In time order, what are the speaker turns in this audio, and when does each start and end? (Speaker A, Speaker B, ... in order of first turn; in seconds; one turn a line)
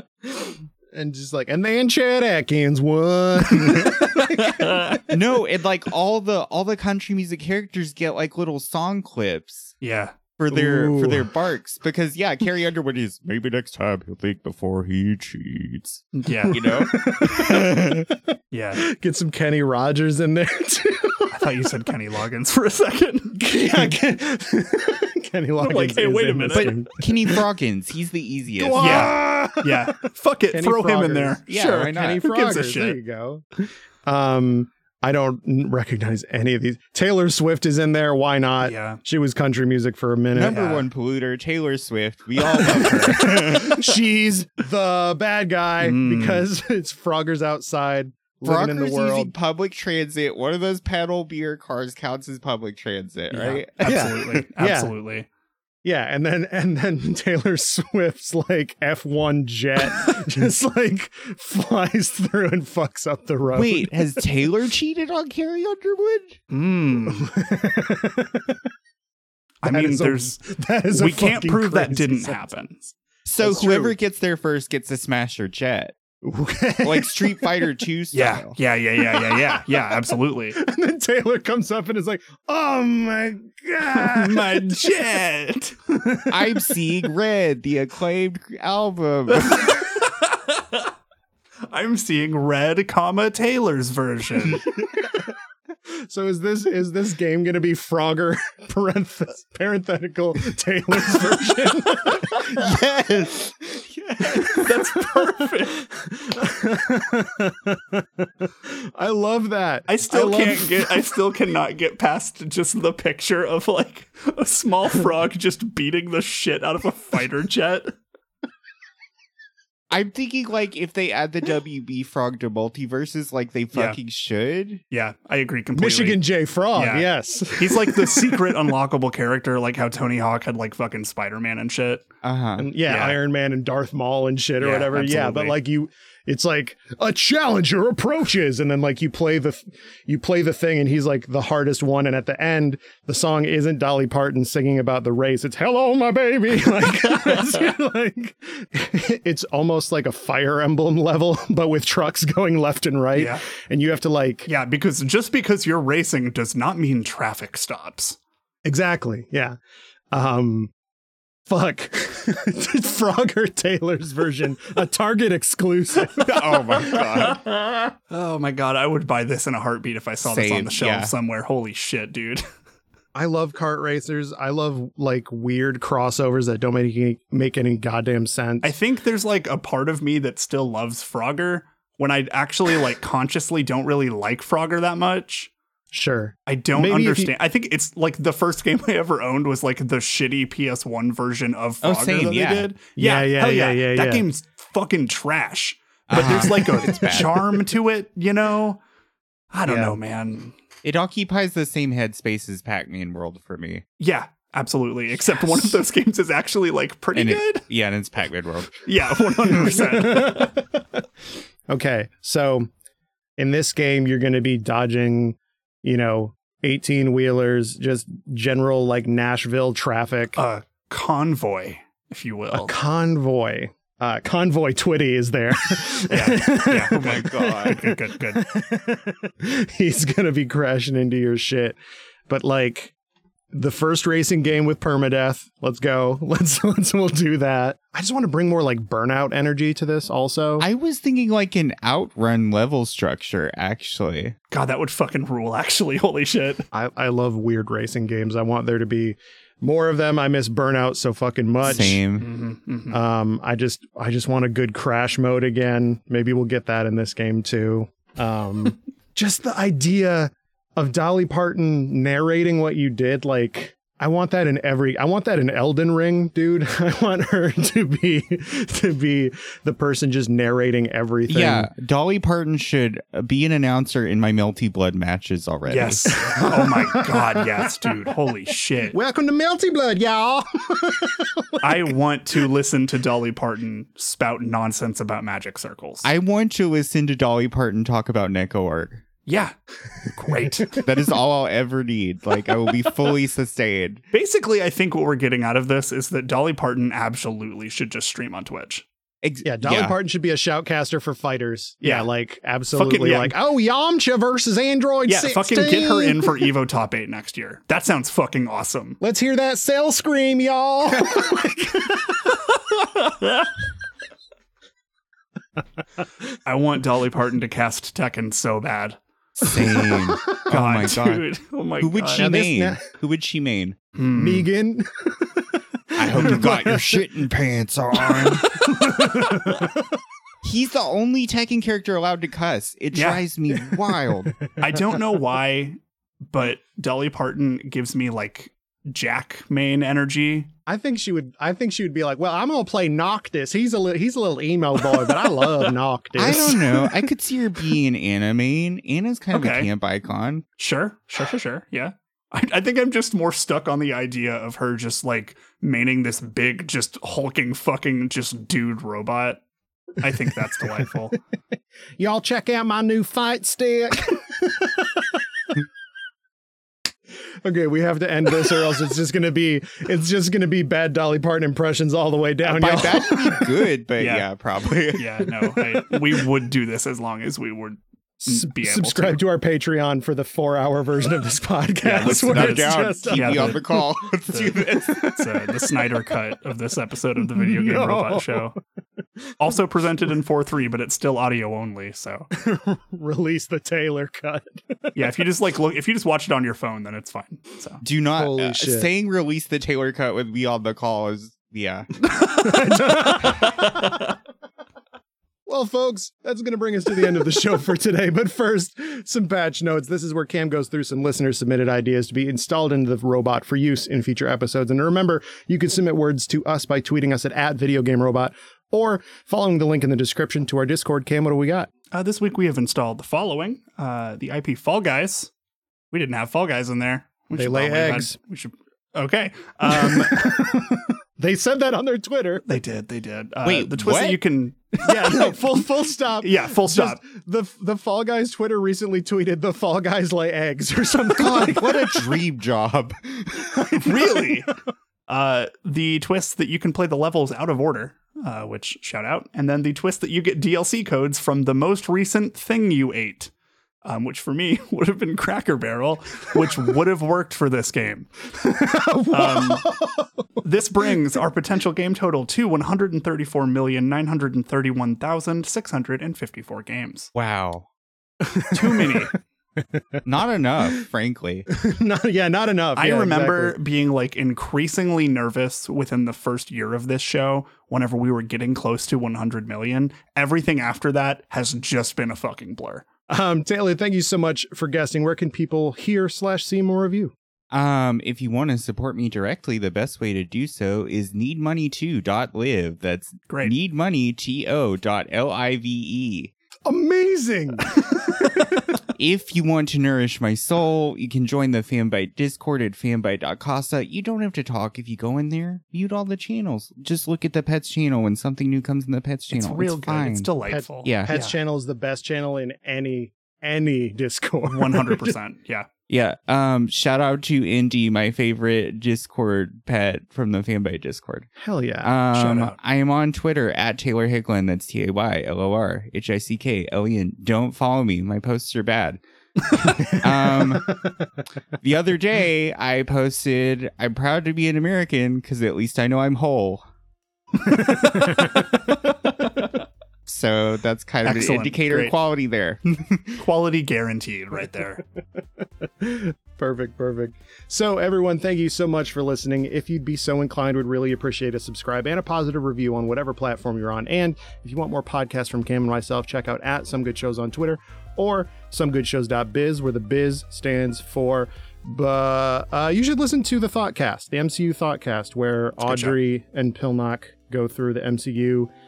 Speaker A: 0.2-5.0
Speaker B: 5.0-9.7
Speaker C: 9.8-10.2
Speaker B: 10.4-18.0
Speaker A: 10.5-11.3
Speaker C: 16.1-16.8
Speaker A: 16.3-18.2
Speaker C: 18.5-18.8
Speaker A: 18.8-21.6
Speaker C: 21.3-23.4
Speaker A: 23.4-27.4
Speaker C: 25.6-26.9
Speaker B: 26.5-29.1
Speaker A: 28.6-29.9
Speaker C: 28.8-33.0
Speaker A: 30.5-33.4
Speaker B: 31.5-32.2
Speaker A: 34.1-40.7
Speaker C: 38.6-39.0
Speaker B: 40.3-43.9
Speaker C: 40.4-40.9
Speaker A: 42.5-49.3
Speaker C: 45.8-46.5
Speaker B: 48.5-54.1
Speaker C: 53.3-55.3
Speaker A: 53.8-54.9
Speaker A: 55.8-64.2
Speaker B: 63.5-66.4
Speaker C: 66.5-67.2
Speaker A: 67.0-68.6
Speaker C: 69.6-70.4
Speaker A: 69.7-72.4
Speaker C: 70.9-72.9
Speaker B: 73.3-76.0
Speaker A: 73.4-73.9
Speaker A: 76.2-77.7
Speaker B: 76.8-78.5
Speaker C: 78.1-80.6
Speaker A: 79.0-84.9
Speaker C: 83.9-85.8
Speaker A: 85.9-87.0
Speaker B: 86.3-89.9
Speaker C: 90.0-90.9
Speaker C: 91.7-94.7
Speaker A: 94.8-95.3
Speaker A: 95.9-111.0
Speaker C: 104.2-105.8
Speaker C: 109.9-117.9
Speaker B: 119.9-124.8
Speaker C: 123.7-124.0
Speaker C: 124.9-126.2
Speaker A: 125.8-128.7
Speaker C: 126.7-132.1
Speaker B: 132.2-132.7
Speaker A: 132.6-154.5
Speaker C: 132.9-133.2
Speaker C: 134.6-135.6
Speaker C: 153.2-153.4
Speaker C: 154.5-158.2
Speaker A: 158.7-159.6
Speaker A: 160.1-160.7
Speaker A: 161.5-167.0
Speaker B: 166.1-167.5
Speaker C: 168.1-172.4
Speaker B: 170.2-171.1
Speaker A: 173.2-178.7
Speaker C: 178.6-185.5
Speaker A: 185.9-187.3
Speaker C: 186.5-198.8
Speaker B: 191.8-192.7
Speaker A: 193.0-194.3
Speaker B: 196.1-197.6
Speaker C: 199.5-200.6
Speaker A: 199.7-200.0
Speaker B: 200.8-203.8
Speaker C: 204.0-207.6
Speaker B: 207.2-208.8
Speaker C: 208.8-210.6
Speaker B: 209.5-209.8
Speaker A: 209.7-210.8
Speaker A: 211.7-212.7
Speaker A: 213.4-220.4
Speaker C: 220.4-222.8
Speaker A: 222.5-231.8
Speaker C: 226.1-228.4
Speaker B: 226.9-227.8
Speaker A: 232.3-232.9
Speaker A: 233.5-240.7
Speaker B: 240.6-244.4
Speaker C: 244.5-246.7
Speaker A: 246.7-252.0
Speaker B: 251.6-252.3
Speaker C: 251.7-253.0
Speaker A: 252.9-271.7
Speaker B: 271.3-276.1
Speaker C: 275.7-279.0
Speaker A: 276.1-277.9
Speaker A: 278.9-281.9
Speaker C: 281.6-286.1
Speaker B: 286.0-289.0
Speaker C: 289.3-289.5
Speaker C: 290.1-290.8
Speaker B: 290.7-294.0
Speaker C: 294.1-298.9
Speaker B: 299.2-299.9
Speaker A: 299.4-306.5
Speaker C: 301.8-302.1
Speaker C: 302.7-303.4
Speaker C: 305.1-309.0
Speaker A: 309.0-312.2
Speaker C: 313.1-313.5
Speaker C: 316.5-319.0
Speaker B: 319.4-321.3
Speaker C: 320.3-322.4
Speaker B: 321.8-323.8
Speaker A: 322.1-322.8
Speaker C: 323.9-324.5
Speaker A: 324.1-327.1
Speaker B: 325.9-328.6
Speaker A: 328.0-329.7
Speaker C: 328.6-329.4
Speaker B: 330.4-334.4
Speaker C: 332.9-333.2
Speaker C: 334.6-340.5
Speaker A: 340.7-347.1
Speaker B: 346.2-350.4
Speaker C: 349.3-349.7
Speaker C: 350.6-359.4
Speaker C: 360.0-361.2
Speaker A: 362.0-365.2
Speaker A: 367.4-373.5
Speaker B: 372.4-375.3
Speaker C: 374.0-374.3
Speaker C: 374.9-379.2
Speaker A: 378.2-383.8
Speaker C: 381.8-383.8
Speaker B: 382.0-385.2
Speaker C: 384.3-388.6
Speaker A: 387.2-388.5
Speaker C: 389.4-392.3
Speaker A: 392.3-395.0
Speaker C: 394.9-397.8
Speaker B: 397.8-401.9
Speaker A: 398.1-398.9
Speaker A: 402.3-403.9
Speaker C: 403.2-403.9
Speaker A: 405.5-421.7
Speaker C: 421.9-425.3
Speaker C: 425.9-430.5
Speaker A: 427.3-428.1
Speaker A: 429.7-432.4
Speaker C: 432.5-435.4
Speaker B: 433.4-434.2
Speaker A: 434.8-442.2
Speaker C: 436.2-437.0
Speaker B: 441.2-443.8
Speaker A: 443.5-444.2
Speaker C: 443.9-444.5
Speaker C: 445.1-453.3
Speaker C: 453.8-458.1
Speaker A: 458.4-460.3
Speaker C: 459.1-459.7
Speaker C: 460.4-467.1
Speaker B: 467.1-467.7
Speaker A: 468.2-469.1
Speaker C: 468.5-469.1
Speaker A: 469.6-470.0
Speaker B: 470.1-471.5
Speaker A: 471.5-473.6
Speaker C: 472.8-482.9
Speaker A: 483.1-487.1
Speaker B: 487.5-496.3
Speaker C: 493.3-493.5
Speaker A: 496.7-498.6
Speaker B: 499.0-510.3
Speaker C: 509.3-511.4
Speaker A: 510.5-515.1
Speaker B: 510.8-511.1
Speaker C: 514.5-515.7
Speaker B: 515.9-521.3
Speaker A: 521.4-522.0
Speaker B: 521.8-530.9
Speaker C: 522.1-522.6
Speaker A: 529.7-530.9
Speaker B: 531.6-536.6
Speaker A: 537.5-538.2
Speaker B: 540.1-543.2
Speaker C: 541.0-541.9
Speaker C: 543.2-544.8
Speaker A: 545.4-568.5
Speaker C: 565.7-566.0